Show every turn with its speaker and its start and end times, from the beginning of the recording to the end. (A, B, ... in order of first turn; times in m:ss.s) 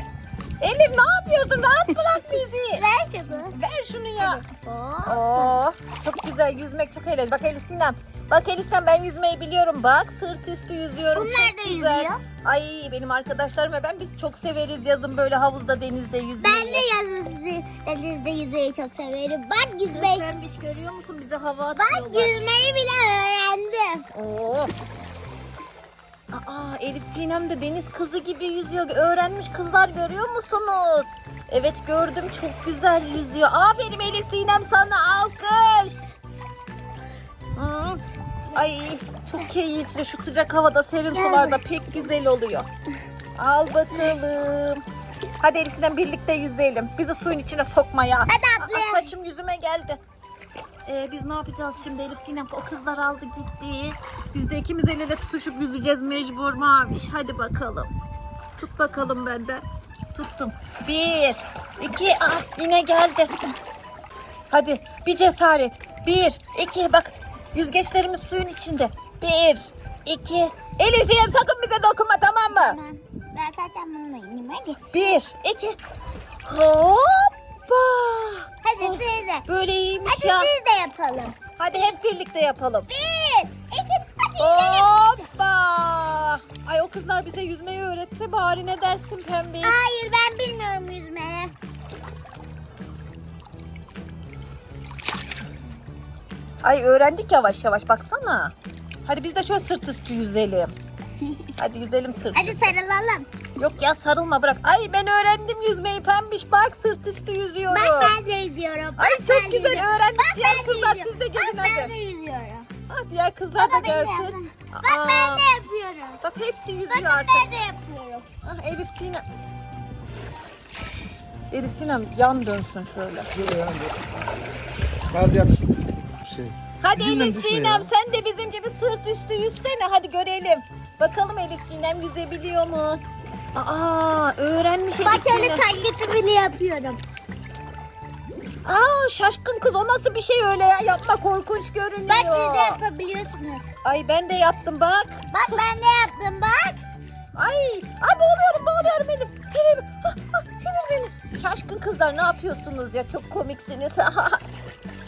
0:00.6-0:02.8 A
0:02.4-0:03.6 B
0:03.4-0:04.4 A
0:04.2-0:05.6 B
0:05.1-0:16.8 A
0:11.1-0:12.2 B
0:16.4-0:20.3 B
0:19.9-0:22.5 A
0:21.8-0:24.1 B
0:24.1-0:24.7 A
0:26.3-0:36.1 A
0:37.6-0:38.0 A
0:38.5-0:42.7 A
0:41.1-0:41.6 B
0:43.4-0:44.8 A
0:45.4-0:50.0 A
0:48.3-0:49.1 B
0:50.9-0:57.9 A
0:58.6-0:59.6 A
1:00.1-1:03.3 A
1:04.5-1:12.8 A
1:12.5-1:14.8 B
1:14.9-1:15.8 A
1:16.4-1:20.5 A
1:18.6-1:19.5 B
1:20.1-1:21.4 B
1:21.6-1:22.9 A
1:22.9-1:25.1 B
1:24.4-1:29.8 A
1:29.6-1:31.5 B
1:36.6-1:38.5 A
1:39.1-1:40.8 A
1:41.6-1:42.7 A
1:42.3-1:43.3 B
1:43.6-1:48.2 A
1:47.7-1:52.7 B
1:49.0-1:51.9 A
1:52.9-1:55.4 A
1:53.6-1:56.2 B
1:56.2-1:57.5 A
1:56.9-1:58.3 B
1:58.4-1:59.2 A
2:01.5-2:03.3 A
2:05.1-2:05.6 C
2:06.2-2:07.8 C
2:06.8-2:13.0 A
2:13.6-2:15.6 A
2:15.0-2:17.0 B
2:18.6-2:22.8 A
2:22.1-2:23.7 B
2:23.8-2:25.2 A
2:25.3-2:26.8 B
2:27.4-2:34.4 A